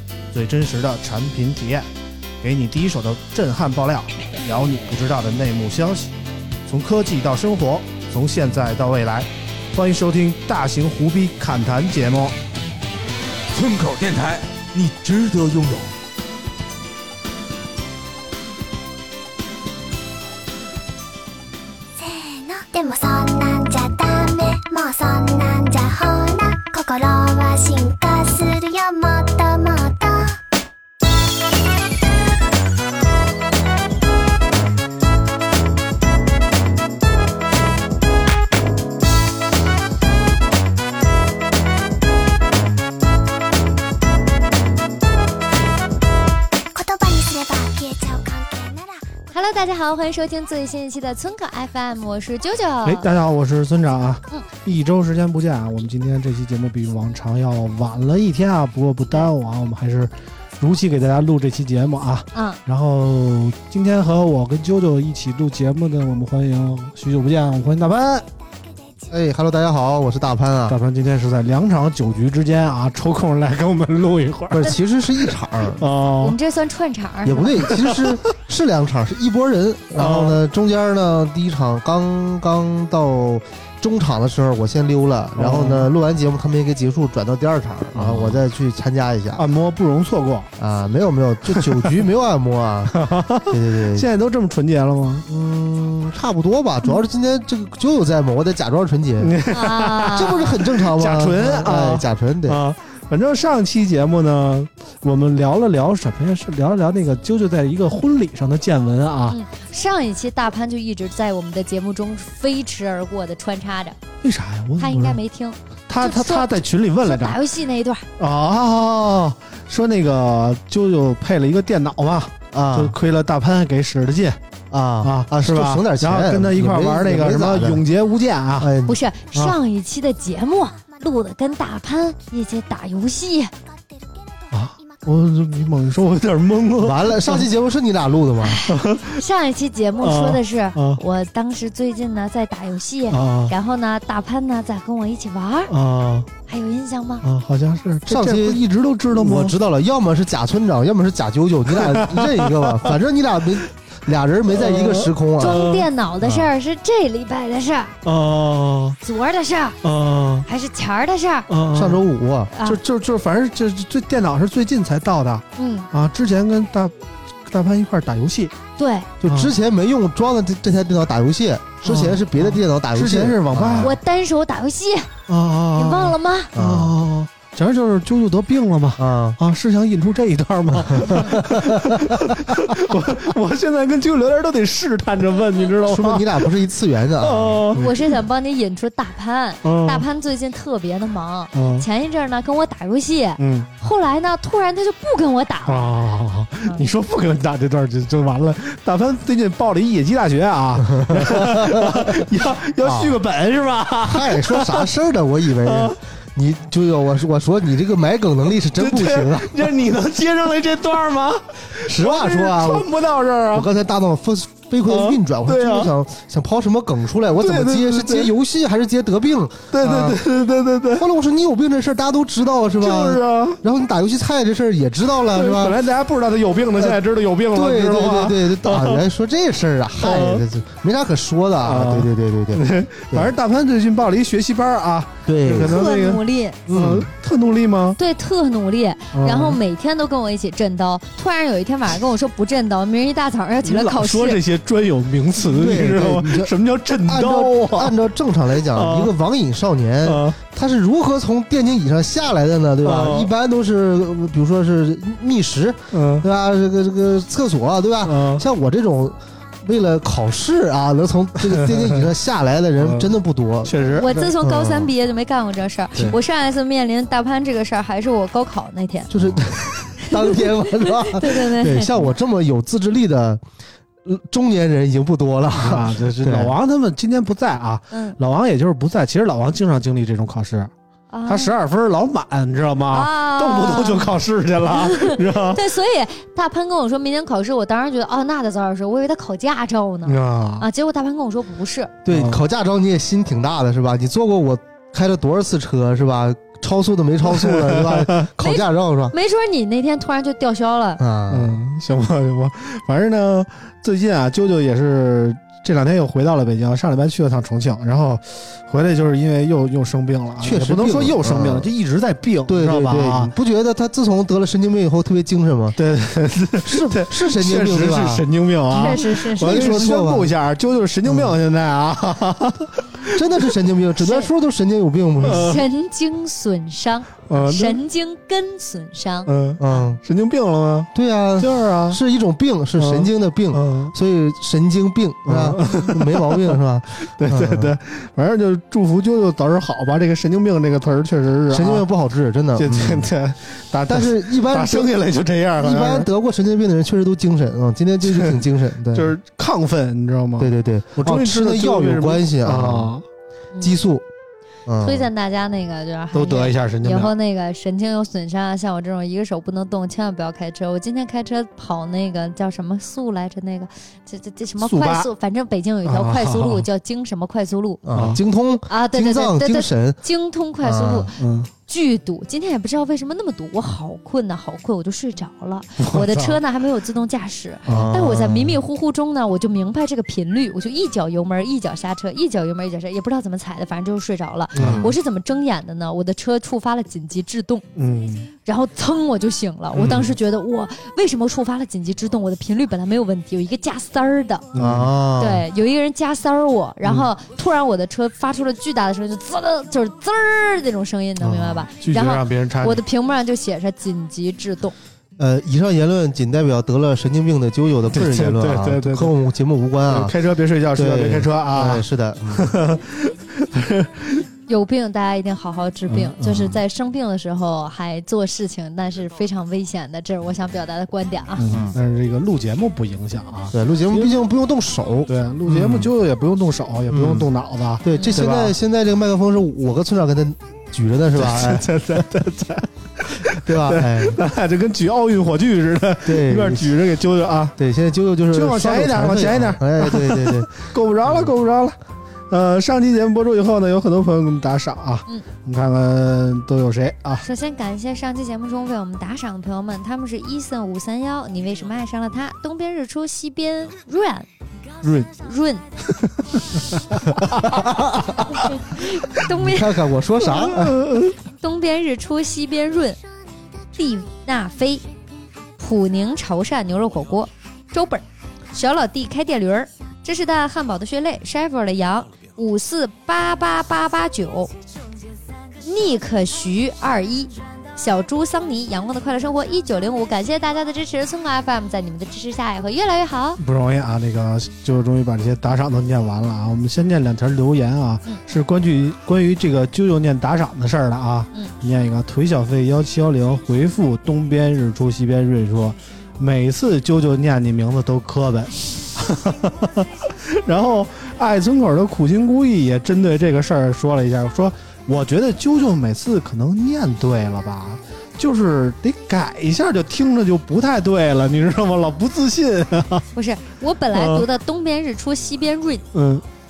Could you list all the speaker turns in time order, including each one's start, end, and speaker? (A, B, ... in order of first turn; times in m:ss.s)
0:00.3-0:01.9 A
0:02.4-0:06.1 A
0:06.7-0:12.4 A
0:13.5-0:15.9 B
0:22.0-0:30.4 C
0:46.7-0:49.2 C
0:49.3-0:53.0 D
0:52.8-1:08.3 A
1:02.3-1:02.6 D
1:09.1-1:10.8 E
1:10.7-1:14.7 A
1:14.5-1:15.9 E
1:15.8-1:16.4 A
1:16.2-1:17.7 D
1:17.2-1:29.4 E
1:17.7-1:18.1 A
1:20.0-1:20.4 A
1:25.4-1:25.9 A
1:27.9-1:28.4 A
1:29.4-1:30.5 A
1:30.6-1:34.1 E
1:31.5-1:32.0 A
1:32.9-1:35.2 A
1:35.2-1:39.3 E
1:39.2-1:49.4 A
1:39.5-1:40.6 D
1:40.1-1:42.6 E
1:49.3-1:54.0 D
1:54.2-1:55.2 A
1:54.8-1:58.0 D
1:55.9-1:57.4 A
1:58.2-2:04.4 A
2:02.5-2:03.0 E
2:04.7-2:07.8 E
2:05.0-2:08.7 A
2:08.6-2:09.0 E
2:08.8-2:13.5 D
2:14.5-2:17.5 A
2:16.8-2:18.6 E
2:18.4-2:25.7 D
2:18.7-2:19.2 A
2:20.0-2:21.0 A
2:23.1-2:23.5 A
2:25.7-2:26.3 A
2:26.5-2:27.2 D
2:27.2-2:29.6 A
2:28.1-2:35.6 E
2:31.8-2:32.9 A
2:34.5-2:35.9 A
2:35.4-2:37.9 D
2:36.2-2:36.5 E
2:38.0-2:39.0 A
2:39.0-2:39.8 D
2:39.8-2:40.5 A
2:40.4-2:41.5 D
2:41.5-2:42.0 A
2:41.7-2:42.5 E
2:42.5-2:42.8 D
2:42.6-2:46.9 A
2:45.6-2:45.9 D
2:47.4-2:48.5 A
2:48.8-2:49.1 D
2:49.2-2:54.0 E
2:49.3-2:49.5 A
2:51.8-2:54.0 A
2:53.8-2:55.1 D
2:55.3-3:06.5 A
2:55.8-2:56.5 D
2:56.5-2:57.0 E
2:59.0-2:59.4 E
3:00.7-3:02.7 E
3:05.8-3:07.8 E
3:07.2-3:08.2 A
3:07.7-3:15.9 D
3:09.6-3:10.0 A
3:11.5-3:11.9 A
3:13.4-3:13.7 A
3:15.7-3:24.9 A
3:20.8-3:22.3 E
3:22.8-3:23.2 E
3:24.0-3:29.7 E
3:25.6-3:26.0 A
3:28.7-3:33.7 A
3:31.8-3:32.9 E
3:33.5-3:40.2 E
3:34.8-3:35.9 A
3:37.4-3:38.3 A
3:39.7-3:41.1 A
3:41.0-3:45.8 E
3:42.8-3:43.6 A
3:45.3-3:49.0 A
3:47.5-3:53.3 E
3:50.0-3:50.4 A
3:51.6-3:58.0 A
3:55.2-3:55.7 E
3:55.6-3:56.6 D
3:56.7-3:57.1 E
3:58.0-4:04.4 D
3:59.1-3:59.6 A
4:03.6-4:08.0 A
4:05.4-4:06.5 E
4:07.0-4:23.8 E
4:08.7-4:09.1 A
4:10.0-4:10.4 A
4:12.8-4:13.3 A
4:15.9-4:16.2 A
4:18.0-4:18.4 A
4:21.5-4:22.0 A
4:22.8-4:23.1 A
4:23.6-4:24.4 A
4:23.9-4:29.1 D
4:24.4-4:24.8 E
4:29.1-4:33.4 E
4:30.0-4:30.3 D
4:31.0-4:31.9 D
4:34.0-4:36.5 E
4:35.6-4:40.7 A
4:37.9-4:38.2 D
4:41.1-4:41.5 D
4:41.3-4:45.6 A
4:42.9-4:44.1 D
4:44.7-4:51.9 D
4:50.0-4:50.6 A
4:52.0-4:59.1 E
4:52.1-4:52.4 A
4:57.3-4:58.3 A
4:58.4-5:01.0 D
5:01.0-5:01.6 E
5:01.3-5:13.3 A
5:10.4-5:11.7 E
5:12.5-5:15.8 E
5:15.8-5:23.2 A
5:16.6-5:18.2 E
5:18.7-5:20.0 D
5:18.8-5:20.3 E
5:21.0-5:21.3 E
5:23.1-5:25.6 E
5:24.0-5:24.3 D
5:25.2-5:25.6 A
5:25.3-5:29.3 D
5:27.3-5:27.8 A
5:29.3-5:32.0 A
5:29.6-5:30.0 E
5:30.9-5:37.7 E
5:32.8-5:33.9 A
5:35.3-5:41.8 A
5:41.5-5:43.1 E
5:42.6-5:46.1 A
5:43.9-5:44.9 E
5:45.6-5:49.1 E
5:48.1-5:48.4 A
5:48.9-5:53.0 A
5:50.4-5:52.9 E
5:53.6-5:54.0 E
5:54.6-5:55.1 E
5:54.8-6:07.8 D
5:56.1-5:57.1 A
6:04.6-6:05.1 A
6:05.8-6:06.6 A
6:07.8-6:10.0 E
6:07.9-6:08.2 A
6:08.7-6:27.6 D
6:10.6-6:11.1 E
6:11.2-6:11.5 A
6:15.8-6:16.4 A
6:17.7-6:17.9 A
6:17.7-6:18.6 E
6:24.5-6:24.9 E
6:24.6-6:24.9 A
6:27.8-6:28.3 A
6:28.4-6:34.5 D
6:29.7-6:30.1 A
6:34.5-6:34.9 A
6:34.6-6:35.4 E
6:35.2-6:44.7 D
6:41.8-6:42.8 A
6:45.2-6:50.1 E
6:47.9-6:49.1 A
6:49.9-6:54.2 A
6:50.7-6:52.6 E
6:54.5-7:01.5 D
6:55.9-6:56.6 A
7:01.4-7:04.2 A
7:03.5-7:05.9 E
7:05.1-7:08.5 A
7:06.9-7:07.3 E
7:07.8-7:11.7 E
7:11.1-7:17.6 A
7:13.2-7:14.2 E
7:16.0-7:16.8 E
7:17.6-7:20.5 E
7:18.3-7:21.8 A
7:21.0-7:21.3 E
7:22.3-7:27.2 A
7:27.2-7:34.3 D
7:34.8-7:35.1 A
7:35.1-7:35.6 D
7:35.8-7:37.6 A
7:37.4-7:38.4 E
7:38.3-7:40.4 D
7:39.2-7:41.0 E
7:40.4-7:41.1 A
7:41.4-7:43.0 D
7:43.7-7:44.8 D
7:45.6-7:54.5 D
7:55.6-8:03.4 D
8:03.4-8:33.0 A
8:33.1-8:35.8 D
8:33.9-8:34.2 A
8:35.9-8:36.2 A